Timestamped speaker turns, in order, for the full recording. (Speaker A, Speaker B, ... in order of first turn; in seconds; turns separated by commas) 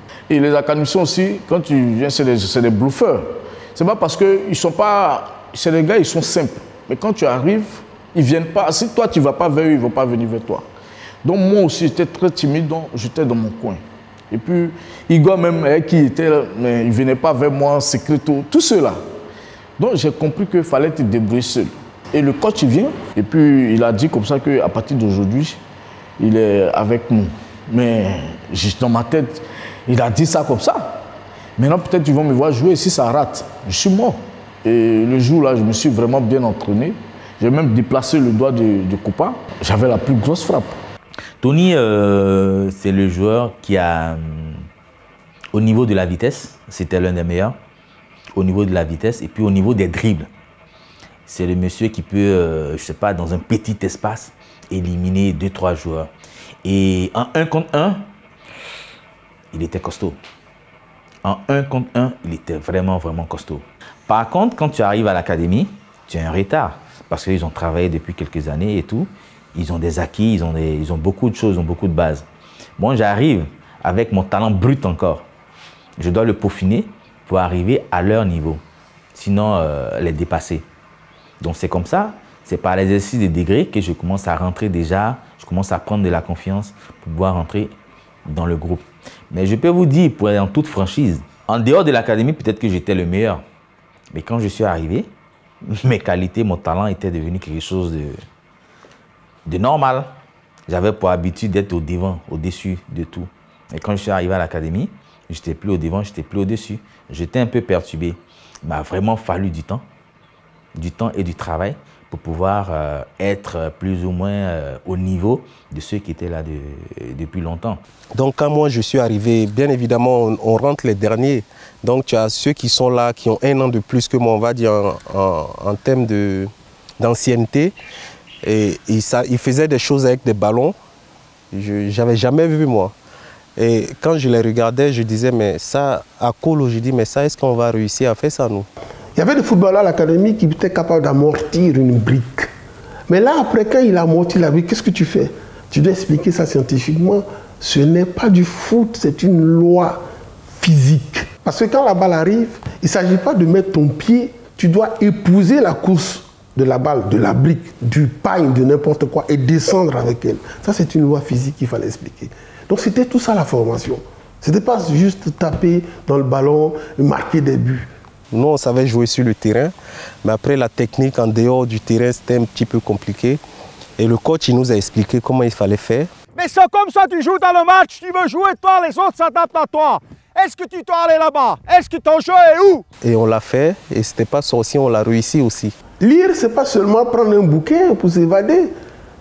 Speaker A: 0.3-10.7, Speaker A: 11.2-19.0, Speaker A: 19.8-25.6, Speaker A: 26.2-31.0, Speaker A: 31.6-40.8, Speaker B: 41.4-44.7, Speaker B: 45.5-47.6, Speaker B: 48.3-50.3, Speaker B: 51.3-56.1, Speaker B: 56.6-58.1, Speaker B: 59.5-60.2, Speaker B: 61.2-72.3, Speaker B: 72.8-75.3, Speaker B: 76.0-78.6, Speaker B: 79.1-80.7, Speaker B: 81.4-87.7, Speaker B: 88.2-93.4, Speaker B: 94.1-95.1, Speaker B: 95.6-98.2, Speaker B: 99.5-100.2, Speaker B: 100.7-109.9, Speaker B: 110.8-117.8, Speaker C: 118.2-127.7, Speaker C: 128.4-130.8, Speaker C: 131.5-132.9, Speaker C: 133.6-138.7, Speaker D: 139.2-142.5, Speaker D: 143.1-150.0, Speaker D: 150.6-167.9, Speaker C: 168.3-169.7, Speaker C: 170.2-173.4, Speaker C: 174.0-176.1, Speaker E: 176.4-182.8, Speaker C: 183.0-185.8, Speaker D: 186.0-188.7